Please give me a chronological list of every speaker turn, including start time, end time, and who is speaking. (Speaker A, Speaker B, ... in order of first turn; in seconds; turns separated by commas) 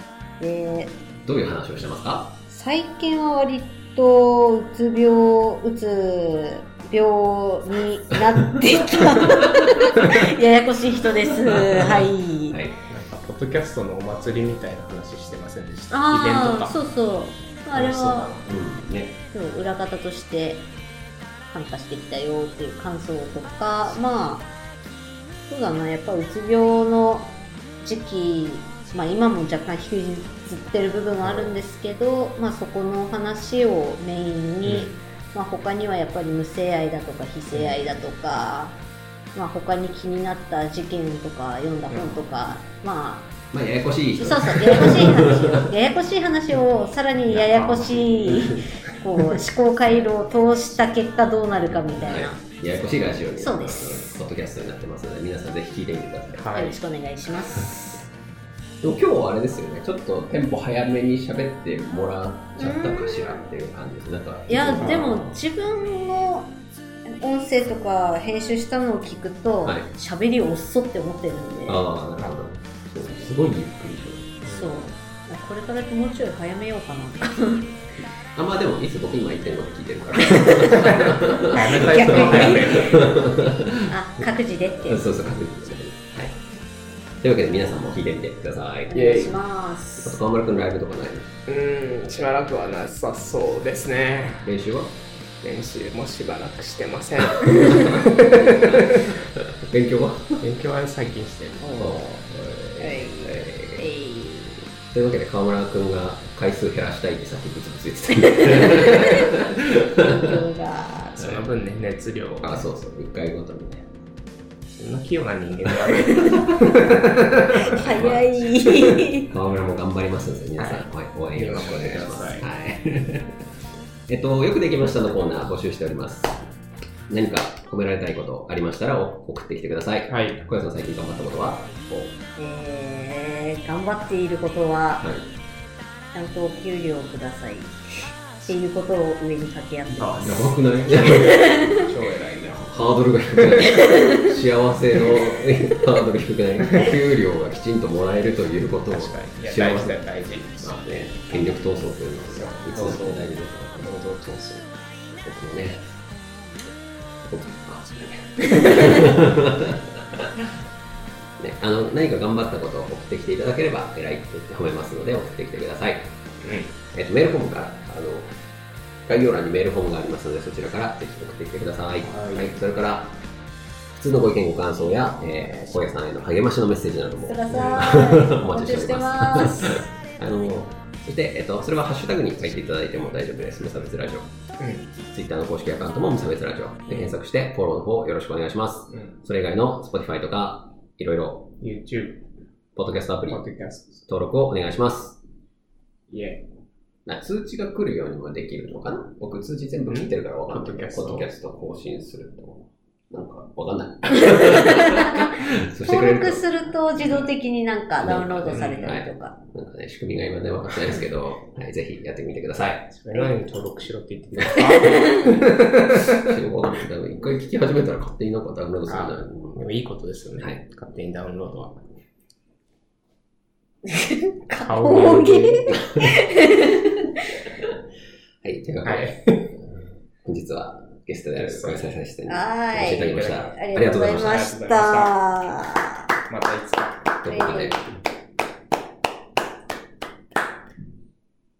Speaker A: 0.4-0.9, Speaker B: 1.2-2.4, Speaker A: 2.5-12.6, Speaker B: 8.1-10.2, Speaker B: 11.5-12.8, Speaker C: 12.9-16.8, Speaker A: 15.9-18.3, Speaker C: 17.7-18.6, Speaker B: 18.4-19.2, Speaker A: 19.3-20.6, Speaker A: 21.5-24.5, Speaker A: 25.5-38.8, Speaker C: 34.6-34.9, Speaker C: 37.5-37.9, Speaker A: 39.4-43.3, Speaker C: 41.9-42.3, Speaker B: 43.5-45.7, Speaker A: 44.1-52.4, Speaker C: 47.3-48.2, Speaker B: 48.3-48.6, Speaker C: 51.7-52.2, Speaker B: 51.9-56.5, Speaker A: 53.4-54.2, Speaker C: 56.4-56.8, Speaker A: 56.5-58.0, Speaker B: 58.8-65.4, Speaker A: 62.5-63.4, Speaker A: 64.5-66.5, Speaker C: 64.8-65.1, Speaker A: 67.1-71.8, Speaker B: 71.7-74.4, Speaker A: 74.4-77.8, Speaker C: 74.4-74.7, Speaker B: 78.3-84.3, Speaker A: 80.2-85.1, Speaker C: 80.8-83.2, Speaker B: 84.8-86.4, Speaker B: 87.2-89.4, Speaker A: 88.9-90.2, Speaker B: 90.0-91.3, Speaker C: 91.5-94.5, Speaker B: 94.4-95.0, Speaker C: 95.4-99.2, Speaker B: 97.2-100.4, Speaker C: 100.4-101.8, Speaker A: 101.6-102.2, Speaker B: 101.7-103.8, Speaker A: 102.8-104.6, Speaker B: 104.9-110.4, Speaker A: 108.2-111.2, Speaker C: 111.1-112.7, Speaker B: 112.4-113.9, Speaker C: 114.8-117.8, Speaker A: 116.0-116.4, Speaker B: 116.3-123.4, Speaker A: 117.6-119.3, Speaker C: 120.6-122.5, Speaker B: 124.1-126.4, Speaker B: 127.1-131.7, Speaker C: 130.1-130.4, Speaker A: 132.4-135.1, Speaker B: 135.0-135.3, Speaker A: 136.1-140.5, Speaker C: 139.9-142.7, Speaker B: 140.2-141.6, Speaker A: 141.0-141.9, Speaker B: 142.4-150.1, Speaker C: 143.4-143.7, Speaker A: 143.6-144.3, Speaker C: 148.9-150.7, Speaker B: 150.6-153.9, Speaker C: 152.2-154.7, Speaker B: 155.1-155.9, Speaker B: 157.2-160.5, Speaker B: 161.4-166.2, Speaker C: 166.4-166.7, Speaker B: 166.9-168.4, Speaker B: 169.1-173.2, Speaker C: 172.0-172.5, Speaker B: 173.9-184.3, Speaker A: 177.2-179.8, Speaker C: 177.5-177.9, Speaker C: 184.6-184.9, Speaker B: 185.1-191.5, Speaker C: 188.9-189.2, Speaker C: 191.6-192.3, Speaker B: 192.7-193.4, Speaker C: 193.3-194.0, Speaker B: 194.0-195.2, Speaker C: 196.1-196.4, Speaker B: 197.1-206.5, Speaker C: 199.9-201.3, Speaker A: 204.2-209.4, Speaker B: 208.0-213.3, Speaker C: 208.5-208.9, Speaker C: 212.9-216.3, Speaker B: 214.4-215.4, Speaker A: 214.8-215.1, Speaker B: 215.9-219.6, Speaker C: 218.9-221.8, Speaker A: 223.9-227.4, Speaker C: 224.6-225.7, Speaker B: 225.7-226.1, Speaker B: 228.4-229.6, Speaker C: 228.8-229.4, Speaker B: 230.2-234.5, Speaker C: 231.4-231.9, Speaker A: 232.3-236.1, Speaker C: 232.8-235.2, Speaker C: 236.3-237.2, Speaker B: 237.2-238.0, Speaker A: 237.3-237.8